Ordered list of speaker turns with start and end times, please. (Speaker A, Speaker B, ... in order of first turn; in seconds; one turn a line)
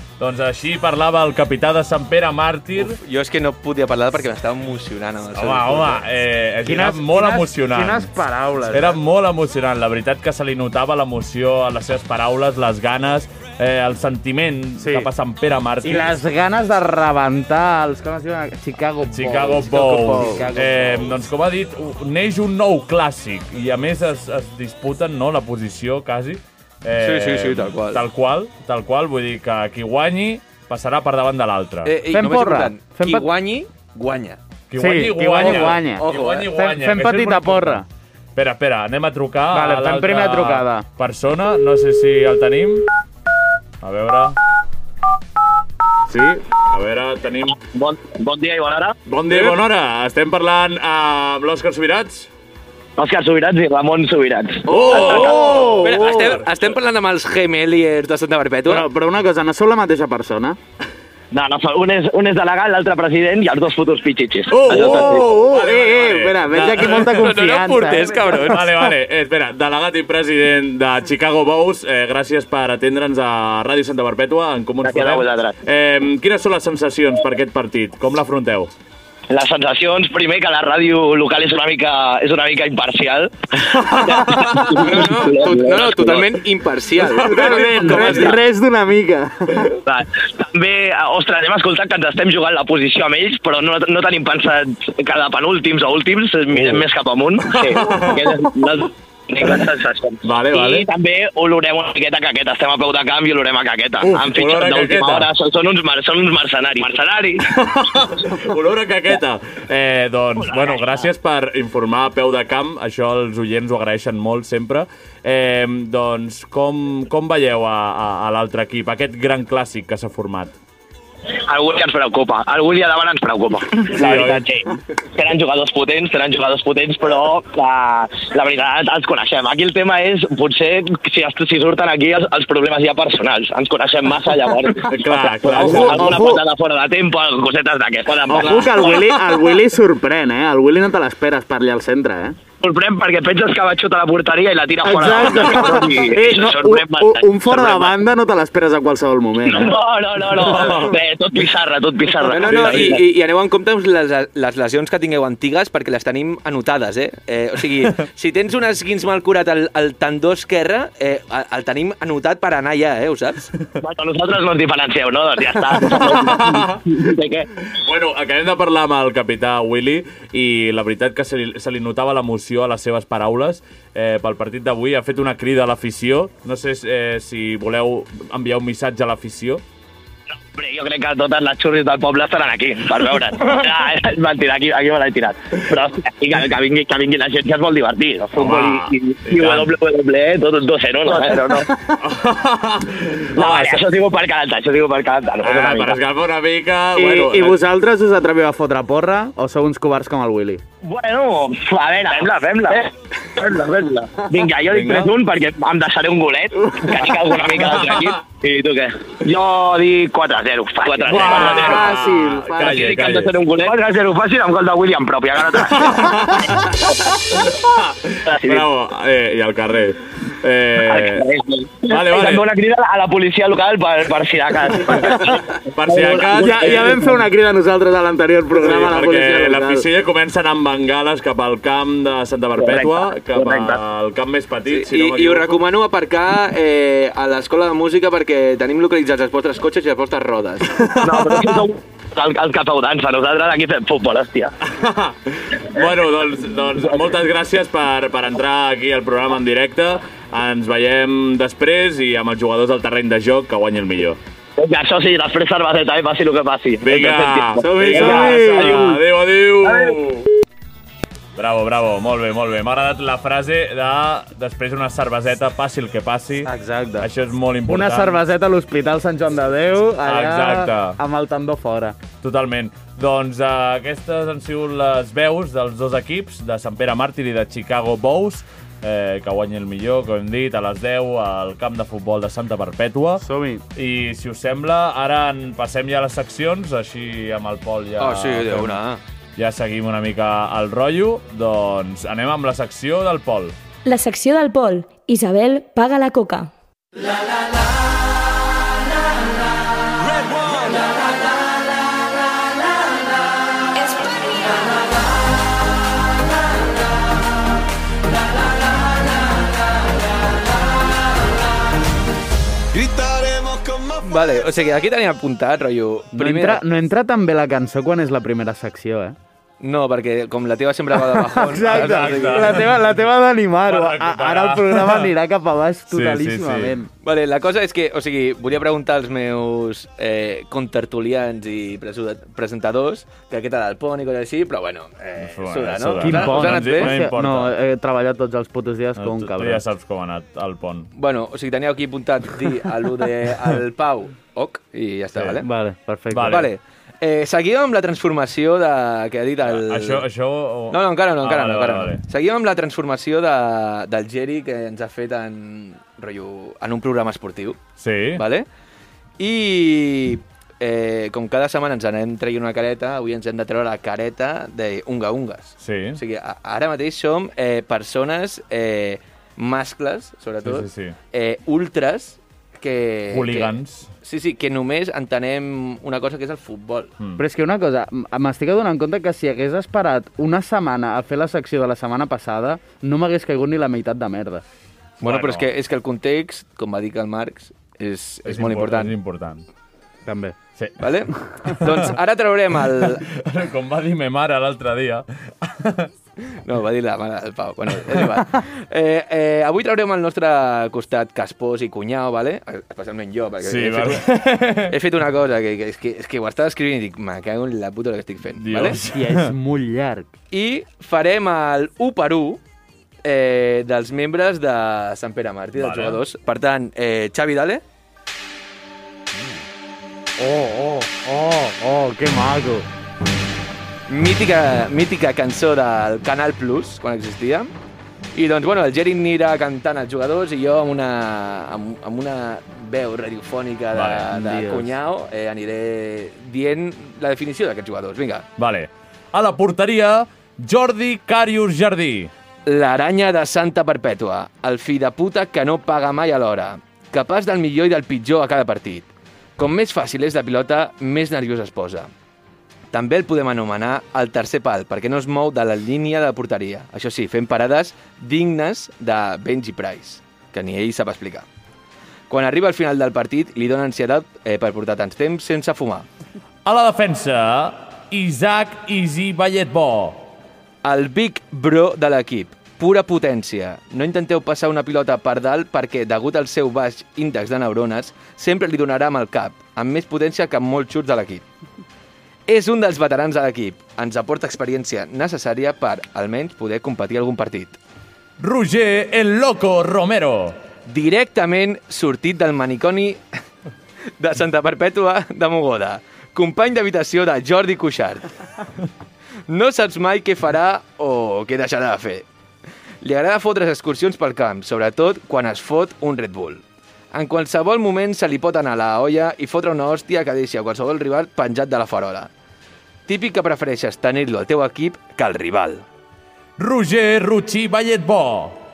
Speaker A: 0.2-3.0
Speaker B: 2.8-6.0
Speaker A: 5.4-8.1
Speaker C: 6.7-9.0
Speaker A: 8.7-16.2
Speaker C: 14.8-15.1
Speaker C: 15.8-21.2
Speaker A: 19.1-31.9
Speaker B: 27.0-28.1
Speaker B: 31.9-34.4
Speaker C: 32.1-33.3
Speaker A: 34.7-42.9
Speaker C: 34.8-37.9
Speaker B: 35.4-36.5
Speaker C: 39.5-40.9
Speaker A: 43.8-44.4
Speaker A: 46.1-47.6
Speaker D: 47.7-49.0
Speaker A: 49.1-52.3
Speaker D: 53.0-55.3
Speaker A: 54.7-56.5
Speaker B: 54.9-58.9
Speaker C: 55.0-56.1
Speaker C: 58.7-60.6
Speaker D: 61.3-65.2
Speaker A: 64.5-78.7
Speaker C: 64.7-68.9
Speaker B: 66.9-68.6
Speaker D: 74.8-75.5
Speaker D: 79.3-86.4
Speaker A: 83.8-84.6
Speaker B: 84.7-88.4
Speaker C: 87.0-89.7
Speaker A: 87.1-88.4
Speaker D: 89.9-108.4
Speaker A: 96.5-96.8
Speaker A: 97.5-98.5
Speaker A: 100.2-100.9
Speaker A: 104.0-105.3
Speaker A: 107.5-120.5
Speaker D: 110.4-111.1
Speaker D: 121.3-139.0
Speaker A: 123.9-124.5
Speaker A: 134.9-136.3
Speaker C: 135.5-136.4
Speaker A: 138.3-139.2
Speaker C: 138.3-142.4
Speaker D: 142.6-147.9
Speaker C: 144.8-149.8
Speaker D: 149.5-153.0
Speaker A: 150.4-150.9
Speaker B: 152.2-163.5
Speaker A: 152.5-153.0
Speaker D: 163.8-167.5
Speaker A: 165.7-166.9
Speaker A: 167.7-179.6
Speaker D: 180.5-191.7
Speaker A: 188.4-189.7
Speaker A: 192.0-193.8
Speaker D: 193.3-196.0
Speaker A: 195.4-197.6
Speaker C: 197.0-200.6
Speaker D: 200.8-217.2
Speaker A: 204.7-205.1
Speaker A: 207.5-208.2
Speaker B: 210.9-211.2
Speaker C: 211.1-212.9
Speaker A: 211.1-213.4
Speaker A: 215.5-216.7
Speaker A: 217.3-221.2
Speaker D: 218.3-218.7
Speaker D: 220.8-227.2
Speaker A: 221.9-222.5
Speaker A: 224.9-227.0
Speaker C: 226.3-229.8
Speaker A: 228.5-235.6
Speaker D: 232.6-233.8
Speaker B: 234.7-240.7
Speaker A: 240.7-241.7
Speaker D: 241.0-244.5
Speaker A: 244.7-254.2
Speaker D: 254.6-259.0
Speaker A: 256.8-260.3
Speaker C: 257.8-259.0
Speaker D: 259.6-259.9
Speaker A: 261.4-268.2
Speaker C: 266.4-267.1
Speaker C: 267.7-272.0
Speaker A: 270.0-271.0
Speaker A: 272.2-288.8
Speaker C: 283.2-283.6
Speaker B: 288.0-289.0
Speaker A: 289.4-293.6
Speaker E: 293.9-296.5
Speaker B: 314.0-316.6
Speaker C: 316.1-319.2
Speaker B: 319.6-322.6
Speaker C: 321.1-326.9
Speaker A: 321.7-322.9
Speaker A: 323.7-325.1
Speaker A: 325.9-326.8
Speaker B: 327.0-336.9
Speaker A: 335.2-337.6
Speaker C: 336.0-339.6
Speaker A: 339.0-340.9
Speaker B: 340.9-345.5
Speaker A: 345.1-345.4
Speaker C: 345.4-346.5
Speaker A: 346.1-346.5
Speaker B: 346.3-350.0
Speaker A: 349.5-352.0
Speaker B: 350.7-357.6
Speaker A: 357.8-358.2
Speaker B: 358.2-358.5
Speaker B: 359.2-376.9
Speaker A: 365.6-366.0
Speaker A: 370.4-371.0
Speaker A: 373.1-373.9
Speaker C: 377.2-384.4
Speaker A: 385.0-385.5
Speaker B: 385.0-388.9
Speaker A: 388.3-389.5
Speaker C: 390.1-390.4
Speaker B: 390.8-393.1
Speaker A: 393.1-395.9
Speaker B: 396.4-404.1
Speaker A: 403.4-404.7
Speaker B: 404.6-408.8
Speaker A: 408.4-409.3
Speaker C: 408.9-410.1
Speaker B: 410.3-412.4
Speaker B: 413.1-417.6
Speaker A: 415.6-416.0
Speaker C: 419.1-419.4
Speaker C: 420.2-422.7
Speaker B: 423.9-427.5
Speaker B: 428.1-438.3
Speaker A: 433.7-434.1
Speaker C: 434.1-434.7
Speaker A: 438.4-442.1
Speaker B: 442.5-451.9
Speaker B: 452.7-461.3
Speaker B: 462.1-465.9
Speaker A: 466.5-470.1
Speaker B: 470.6-481.2
Speaker B: 482.3-487.6
Speaker A: 488.2-490.4
Speaker B: 490.7-493.0
Speaker B: 494.0-498.1
Speaker B: 499.3-502.1
Speaker B: 502.8-512.1
Speaker B: 512.9-515.6
Speaker A: 516.4-518.4